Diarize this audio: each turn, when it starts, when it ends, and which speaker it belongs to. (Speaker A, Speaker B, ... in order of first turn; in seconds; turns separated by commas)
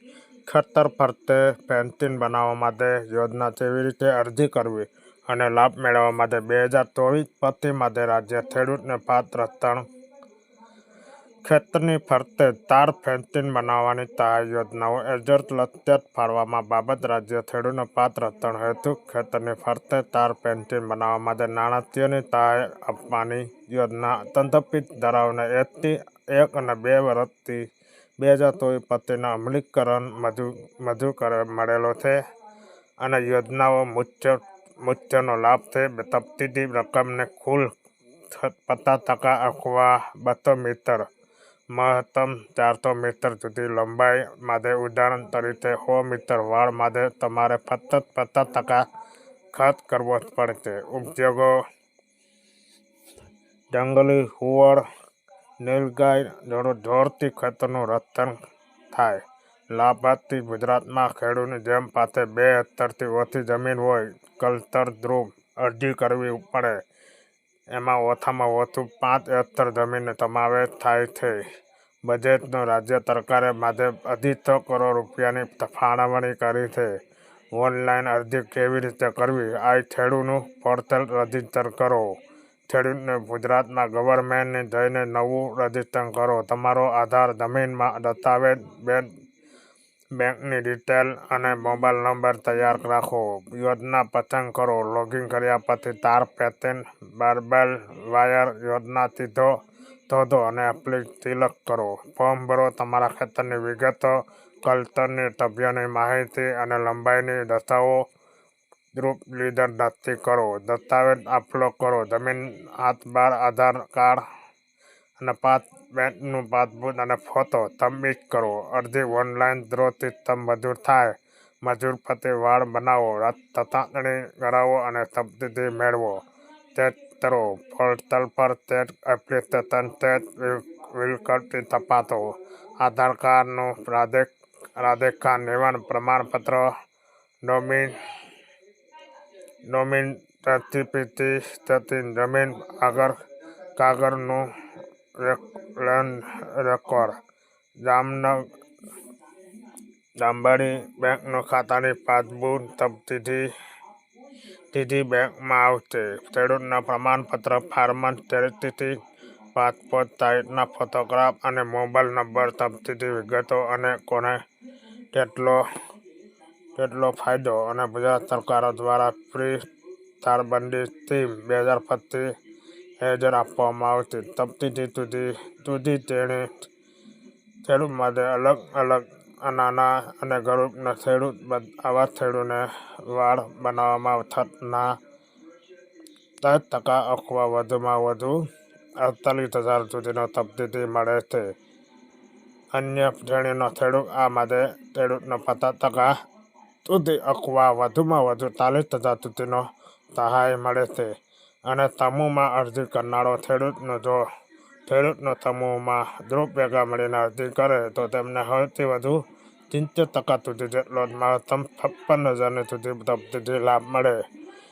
Speaker A: 0.5-9.8, Speaker A: 11.4-27.6, Speaker A: 28.2-32.2, Speaker A: 33.0-37.7, Speaker A: 38.3-41.1, Speaker A: 41.7-48.9, Speaker A: 49.5-51.5, Speaker A: 53.7-54.8, Speaker A: 55.6-58.3, Speaker A: 58.9-66.8, Speaker A: 67.7-71.4, Speaker A: 72.0-76.9, Speaker A: 77.5-82.1, Speaker A: 82.7-89.1, Speaker A: 90.2-99.6, Speaker A: 100.1-108.0, Speaker A: 108.9-114.2, Speaker A: 115.2-126.2, Speaker A: 126.8-136.7, Speaker A: 137.4-137.9, Speaker A: 139.7-143.2, Speaker A: 143.8-144.5, Speaker A: 145.2-147.2, Speaker A: 147.8-148.5, Speaker A: 150.2-153.5, Speaker A: 154.7-159.0, Speaker A: 159.6-164.4, Speaker A: 165.1-165.6, Speaker A: 166.8-169.7, Speaker A: 170.2-172.3, Speaker A: 173.0-176.7, Speaker A: 177.7-185.0, Speaker A: 186.4-188.4, Speaker A: 189.0-191.5, Speaker A: 192.7-196.2, Speaker A: 196.9-201.1, Speaker A: 201.7-204.2, Speaker A: 204.9-214.2